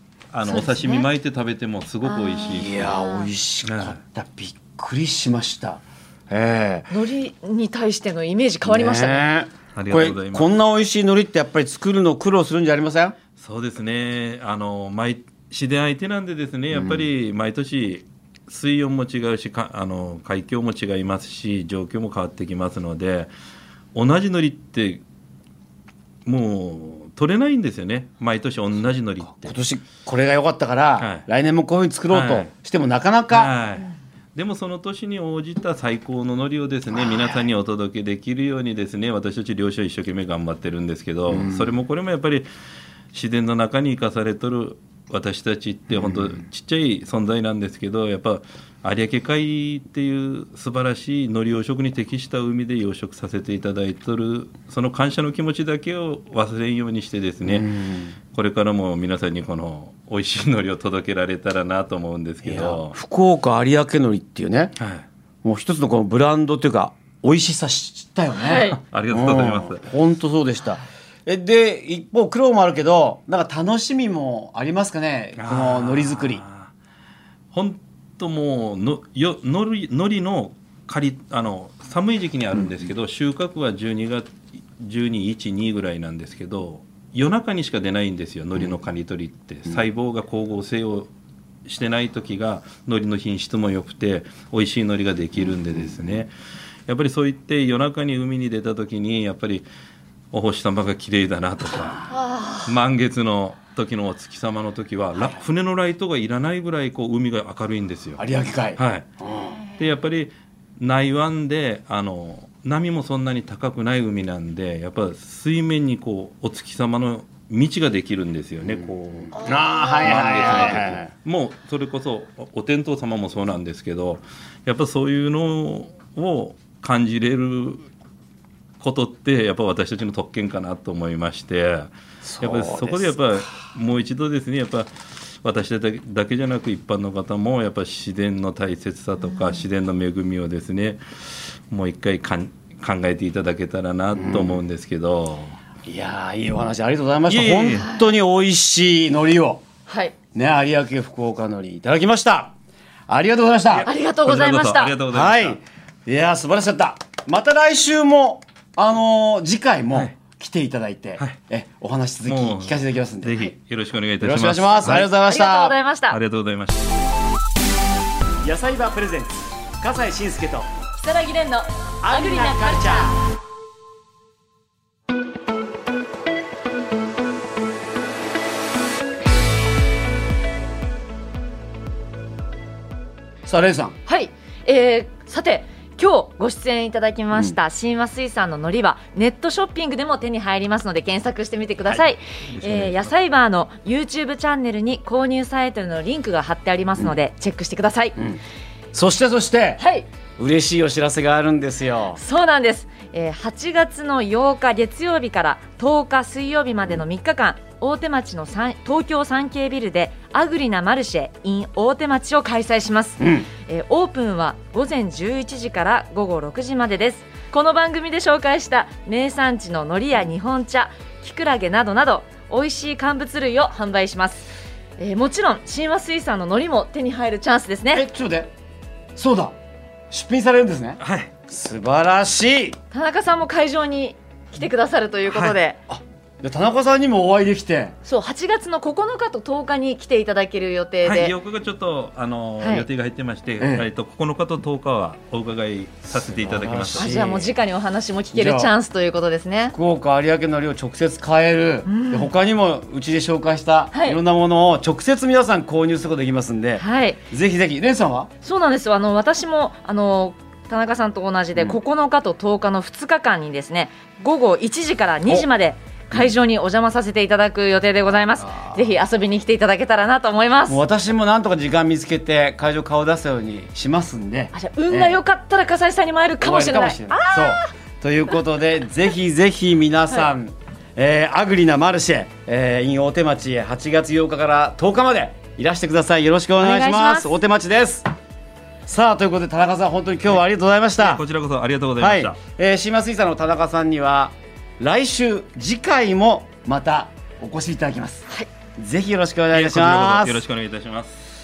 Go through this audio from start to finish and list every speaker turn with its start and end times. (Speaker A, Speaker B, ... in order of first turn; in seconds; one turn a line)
Speaker A: 0.3-3.0
Speaker B: 0.5-1.1
Speaker B: 2.0-3.3
Speaker C: 2.5-6.9
Speaker A: 3.6-4.0
Speaker B: 6.9-9.3
Speaker C: 8.7-13.2
Speaker A: 9.7-10.5
Speaker A: 13.4-23.3
Speaker C: 16.7-17.1
Speaker A: 23.9-25.0
Speaker A: 26.2-29.6
Speaker C: 29.2-33.5
Speaker A: 31.0-31.2
Speaker A: 32.1-32.5
Speaker A: 33.3-42.5
Speaker C: 37.0-37.4
Speaker C: 41.3-41.7
Speaker A: 43.1-57.7
Speaker C: 45.9-46.4
Speaker C: 57.5-58.2
Speaker A: 58.3-63.0
Speaker C: 62.4-64.7
Speaker A: 64.8-65.1
Speaker C: 65.4-76.4
Speaker B: 68.3-68.8
Speaker A: 68.8-69.8
Speaker A: 75.4-76.7
Speaker A: 77.5-91.1
Speaker A: 91.7-96.3
Speaker C: 95.4-96.2
Speaker A: 96.9-99.7
Speaker A: 100.3-102.1
Speaker B: 102.1-102.7
Speaker A: 102.6-108.2
Speaker C: 108.2-109.6
Speaker A: 108.8-109.1
Speaker A: 109.8-127.9
Speaker B: 119.3-120.8
Speaker C: 119.4-121.1
Speaker A: 128.8-145.6
Speaker C: 132.2-133.1
Speaker C: 144.2-144.6
Speaker C: 145.9-149.6
Speaker A: 147.3-147.9
Speaker B: 147.7-148.1
Speaker B: 149.9-150.2
Speaker C: 150.3-152.5
Speaker C: 153.1-153.9
Speaker B: 153.8-155.0
Speaker A: 154.2-155.6
Speaker C: 155.1-163.4
Speaker A: 162.3-165.1
Speaker C: 164.2-165.8
Speaker B: 164.8-166.2
Speaker A: 166.1-166.9
Speaker C: 168.4-170.7
Speaker B: 171.0-173.2
Speaker C: 172.0-173.2
Speaker C: 183.5-184.0
Speaker B: 184.1-198.2
Speaker A: 192.4-193.2
Speaker C: 198.9-199.8
Speaker B: 199.8-200.1
Speaker C: 200.4-202.2
Speaker B: 202.2-228.1
Speaker C: 213.2-213.5
Speaker C: 227.9-228.5
Speaker C: 229.2-229.6
Speaker C: 230.1-232.8
Speaker A: 231.0-231.3
Speaker B: 232.9-235.8
Speaker A: 235.3-235.6
Speaker C: 235.9-238.0
Speaker B: 238.1-241.3
Speaker A: 241.0-247.2
Speaker B: 242.6-242.9
Speaker C: 243.6-243.9
Speaker C: 246.2-247.5
Speaker B: 247.0-249.8
Speaker C: 248.3-248.7
Speaker C: 249.7-258.3
Speaker B: 251.9-252.3
Speaker B: 253.9-254.2
Speaker B: 256.8-257.2
Speaker B: 258.4-270.8
Speaker C: 268.4-268.9
Speaker C: 270.7-275.2
Speaker B: 274.5-277.7
Speaker C: 276.4-288.1
Speaker B: 286.6-287.3
Speaker C: 288.9-291.2
Speaker A: 291.0-292.4
Speaker C: 292.0-300.4
Speaker A: 299.5-301.2